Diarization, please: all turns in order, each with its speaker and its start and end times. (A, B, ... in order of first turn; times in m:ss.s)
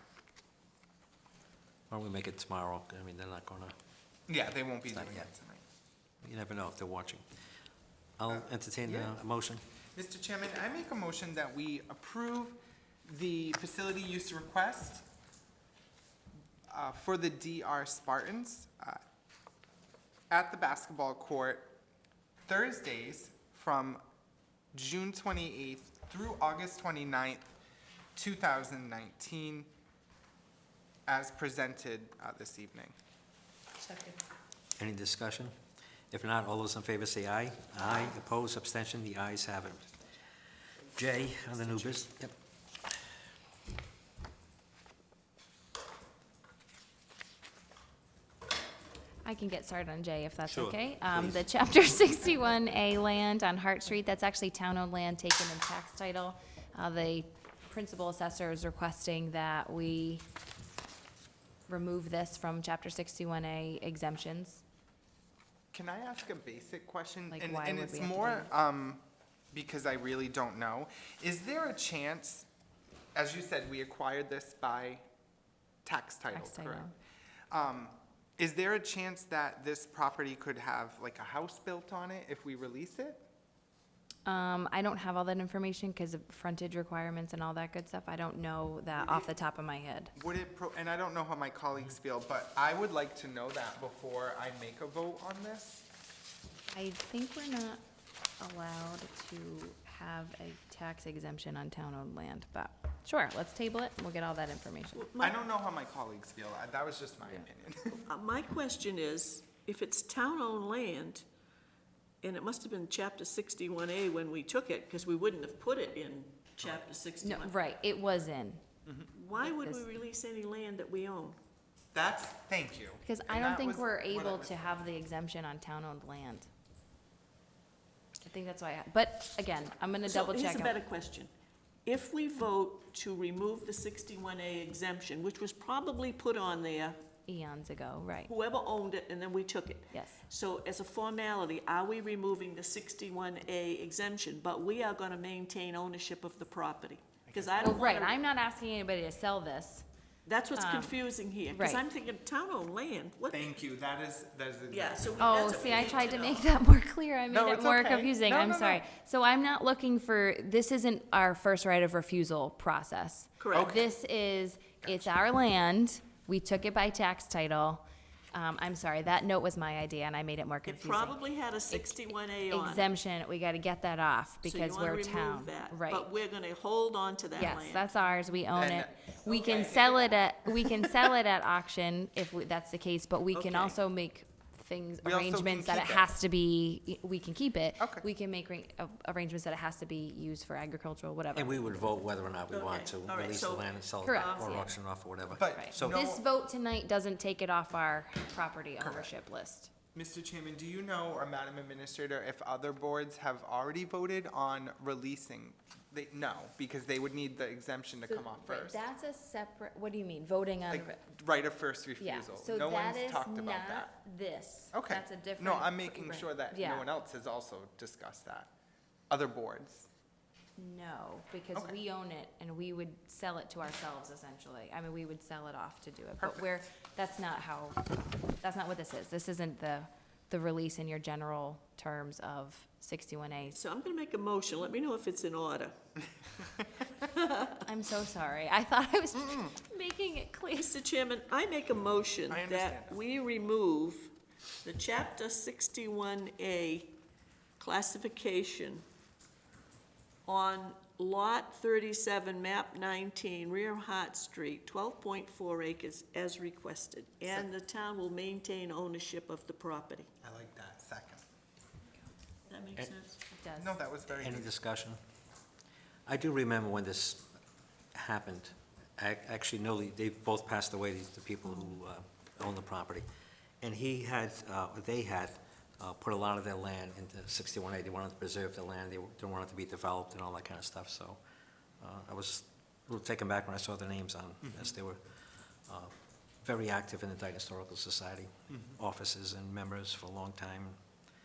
0:01.9-0:03.7 A
0:04.3-0:05.6 B
0:04.9-0:05.3 A
0:06.2-0:07.2 A
0:08.2-0:09.6 A
0:08.3-0:09.1 B
0:09.9-0:15.1 B
0:16.7-0:19.0 B
0:20.3-0:21.8 B
0:22.5-0:24.0 B
0:24.7-0:27.5 B
0:28.2-0:29.7 B
0:31.1-0:33.0 B
0:33.8-0:34.2 C
0:34.8-0:35.5 A
0:36.1-0:39.9 A
0:40.9-0:42.3 A
0:49.2-1:00.2 C
0:50.4-0:51.5 A
1:01.7-1:04.6 C
1:05.7-1:12.5 B
1:07.3-1:08.5 C
1:13.1-1:15.0 B
1:15.8-1:16.9 B
1:16.3-1:16.9 C
1:17.5-1:23.2 B
1:24.2-1:30.1 C
1:29.0-1:29.2 B
1:30.2-1:35.8 B
1:36.7-1:37.8 C
1:38.4-1:45.1 C
1:44.9-1:45.4 D
1:45.2-1:48.0 B
1:48.0-1:51.2 D
1:52.2-1:57.5 D
1:57.2-1:58.6 C
1:58.8-1:59.1 B
1:59.1-2:01.4 D
1:59.4-1:59.9 C
2:01.9-2:04.8 B
2:03.0-2:06.5 C
2:08.2-2:10.8 C
2:10.0-2:11.3 D
2:11.8-2:17.1 D
2:17.3-2:18.3 C
2:18.3-2:28.2 D
2:19.9-2:20.2 C
2:27.3-2:27.9 B
2:27.6-2:29.8 C
2:30.2-2:33.6 D
2:30.5-2:31.8 C
2:33.3-2:36.1 B
2:34.7-2:36.5 D
2:35.2-2:51.2 C
2:37.3-2:38.8 B
2:43.4-2:43.8 D
2:43.5-2:43.9 B
2:44.8-2:45.2 B
2:50.7-2:52.9 D
2:51.7-2:56.1 C
2:54.4-2:57.9 D
2:57.3-3:11.8 C
2:58.5-3:00.2 B
3:03.3-3:03.8 D
3:05.0-3:06.1 B
3:07.8-3:08.0 B
3:11.3-3:16.0 A
3:12.5-3:14.7 D
3:14.0-3:14.7 C
3:15.3-3:16.2 B
3:15.6-3:19.7 C
3:18.8-3:19.1 B
3:19.9-3:28.8 B
3:28.1-3:31.0 C
3:30.7-3:33.9 B
3:32.0-3:36.9 C
3:34.7-3:38.5 B
3:39.1-3:39.9 B
3:40.6-3:53.6 C
3:46.2-3:46.5 B
3:53.5-3:55.7 D
3:57.0-3:57.6 D
3:57.6-4:00.7 C
4:00.5-4:04.1 D
4:02.3-4:03.0 B
4:04.6-4:07.0 D
4:07.6-4:08.8 D
4:10.2-4:20.1 D
4:20.2-4:21.2 B
4:22.5-4:23.2 D
4:23.3-4:23.8 C
4:23.6-4:24.5 B
4:24.1-4:25.0 A
4:26.1-4:27.2 A
4:27.9-4:33.0 A
4:31.5-4:31.8 C
4:33.6-4:41.2 A
4:41.8-4:45.0 A
4:44.4-4:44.7 B
4:45.6-4:50.8 A
4:48.5-4:48.8 B